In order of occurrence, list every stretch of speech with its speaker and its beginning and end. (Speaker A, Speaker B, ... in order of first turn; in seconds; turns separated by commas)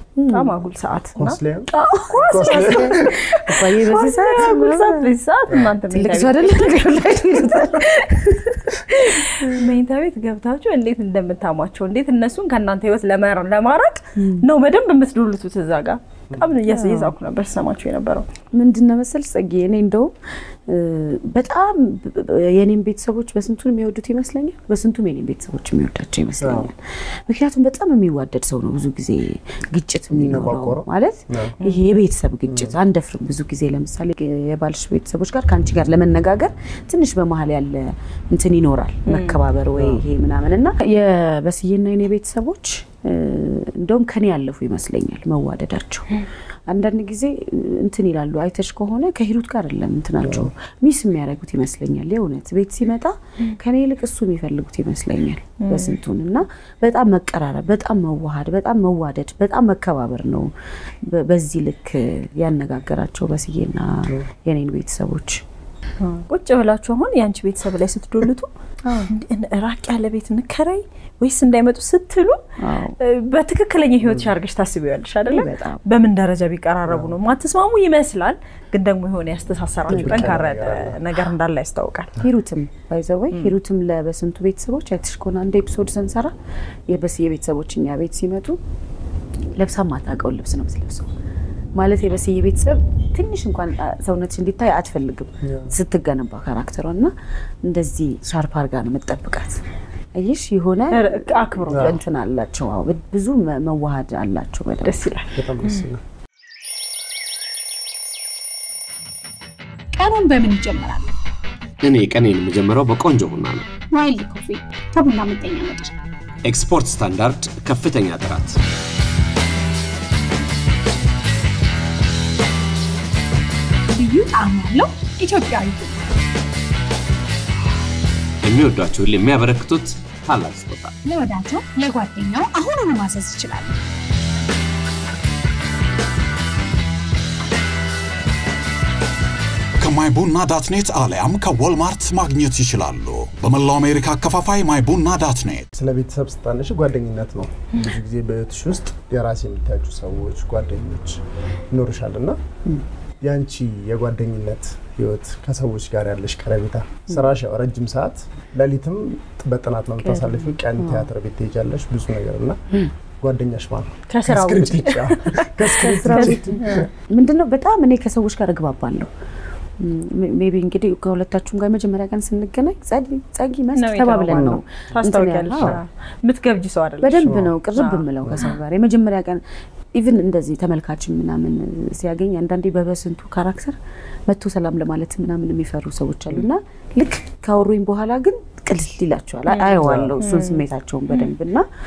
Speaker A: 0.2-0.5, Speaker B: 0.3-1.4, Speaker C: 1.2-3.1, Speaker A: 1.7-5.1, Speaker B: 2.1-6.8, Speaker C: 5.5-5.7, Speaker A: 5.9-9.6, Speaker B: 9.4-18.3, Speaker A: 14.2-14.5, Speaker A: 16.7-17.1, Speaker A: 18.5-20.1, Speaker A: 20.7-46.1, Speaker C: 26.4-26.7, Speaker C: 30.1-31.6, Speaker C: 32.5-32.7, Speaker B: 39.1-39.4, Speaker C: 39.8-40.0, Speaker A: 46.7-60.5, Speaker C: 50.2-50.5, Speaker B: 55.6-56.0, Speaker A: 61.0-65.4, Speaker B: 66.0-68.5, Speaker A: 68.8-69.1, Speaker B: 69.1-72.4, Speaker A: 72.6-73.0, Speaker B: 73.0-82.2, Speaker A: 75.3-75.8, Speaker C: 76.8-77.1, Speaker C: 79.9-81.0, Speaker A: 79.9-80.3, Speaker A: 82.2-86.3, Speaker A: 86.9-88.6, Speaker A: 89.5-91.1, Speaker A: 91.7-99.6, Speaker C: 95.4-95.7, Speaker A: 100.1-105.1, Speaker B: 100.9-102.0, Speaker C: 101.7-102.0, Speaker B: 104.8-105.8, Speaker C: 105.3-106.0, Speaker D: 110.0-111.2, Speaker E: 111.8-113.7, Speaker D: 113.8-115.9, Speaker E: 116.4-118.6, Speaker D: 123.9-126.0, Speaker E: 128.4-130.9, Speaker D: 131.0-133.8, Speaker F: 139.8-145.7, Speaker C: 145.7-152.4, Speaker C: 153.2-162.6, Speaker A: 160.0-161.1, Speaker C: 163.2-166.9, Speaker B: 164.1-166.9, Speaker A: 165.7-169.1, Speaker A: 169.8-175.8, Speaker B: 173.7-178.5, Speaker A: 177.0-179.4, Speaker C: 177.2-177.5, Speaker A: 179.9-191.6, Speaker B: 189.5-191.3, Speaker C: 189.8-190.2